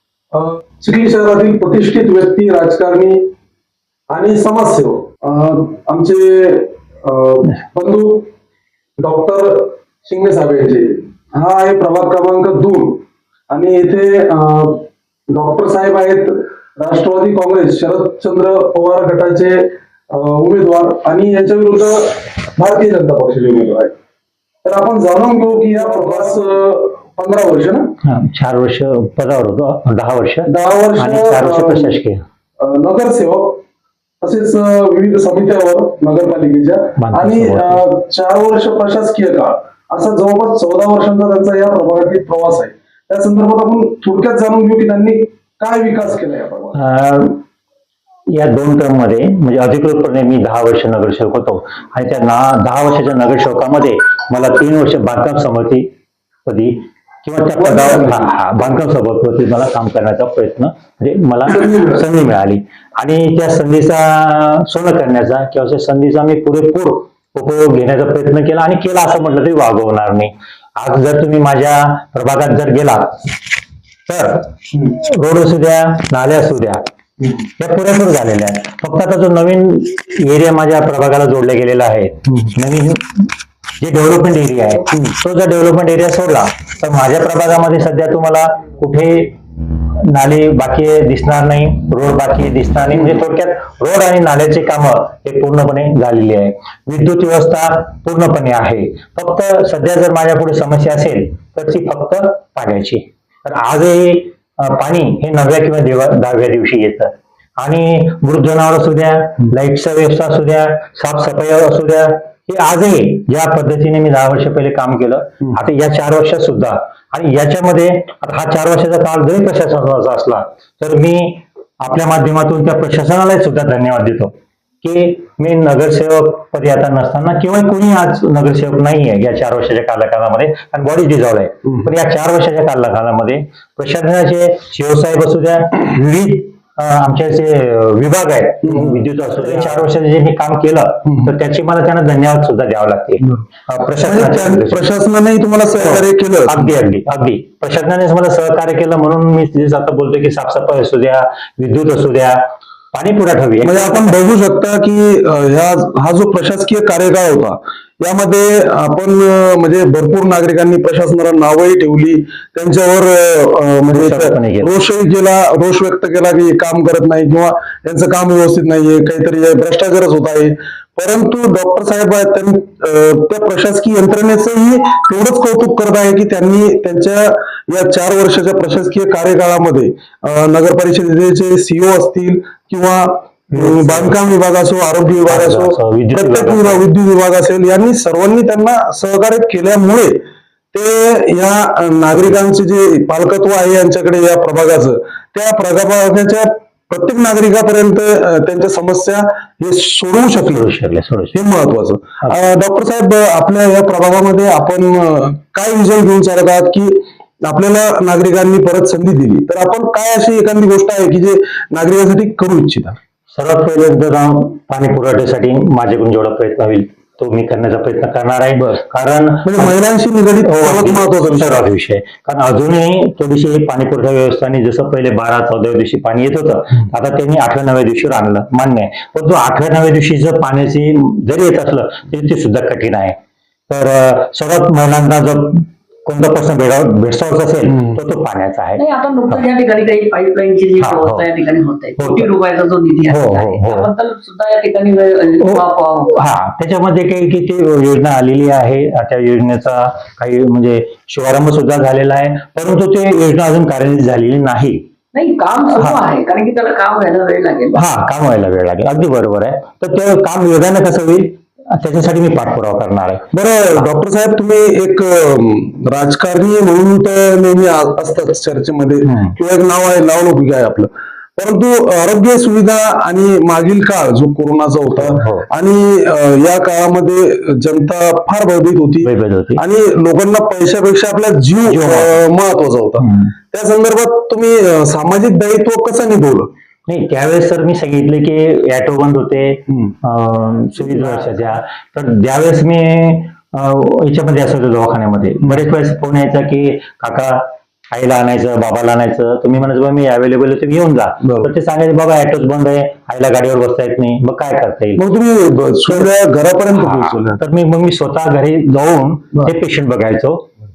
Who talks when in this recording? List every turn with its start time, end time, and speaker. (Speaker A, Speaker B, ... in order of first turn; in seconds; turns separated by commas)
Speaker A: 0.3-3.3, Speaker A: 4.1-8.3, Speaker A: 9.0-23.9, Speaker A: 24.6-27.9, Speaker B: 28.0-32.2, Speaker A: 30.5-31.9, Speaker A: 32.6-33.6, Speaker A: 34.2-46.8, Speaker B: 37.0-37.8, Speaker B: 46.8-47.4, Speaker B: 48.3-55.9, Speaker B: 56.5-73.4, Speaker A: 57.6-58.4, Speaker B: 74.1-76.8, Speaker B: 77.6-89.4, Speaker B: 89.9-144.9, Speaker A: 138.6-139.8, Speaker A: 144.0-146.8, Speaker B: 145.8-152.4, Speaker B: 152.9-154.1, Speaker A: 153.6-190.2, Speaker B: 163.9-164.8, Speaker B: 183.5-184.2, Speaker B: 185.3-186.9, Speaker A: 190.7-200.7, Speaker B: 200.4-201.4, Speaker A: 201.3-213.0, Speaker B: 213.3-219.8, Speaker A: 219.4-221.7, Speaker B: 220.4-233.2, Speaker B: 233.7-239.4, Speaker A: 237.7-238.0, Speaker C: 238.8-246.1, Speaker B: 240.8-241.3, Speaker B: 242.0-242.3, Speaker B: 243.1-243.9, Speaker B: 245.4-254.8, Speaker C: 255.1-257.8, Speaker B: 255.8-256.0, Speaker B: 257.7-263.9, Speaker A: 263.3-286.5, Speaker B: 269.1-269.4, Speaker B: 275.0-275.5, Speaker B: 279.0-279.6, Speaker B: 281.6-282.2, Speaker B: 283.0-283.3, Speaker B: 286.9-305.0, Speaker A: 289.7-289.9, Speaker A: 301.2-301.5, Speaker A: 305.0-307.4, Speaker B: 306.7-310.5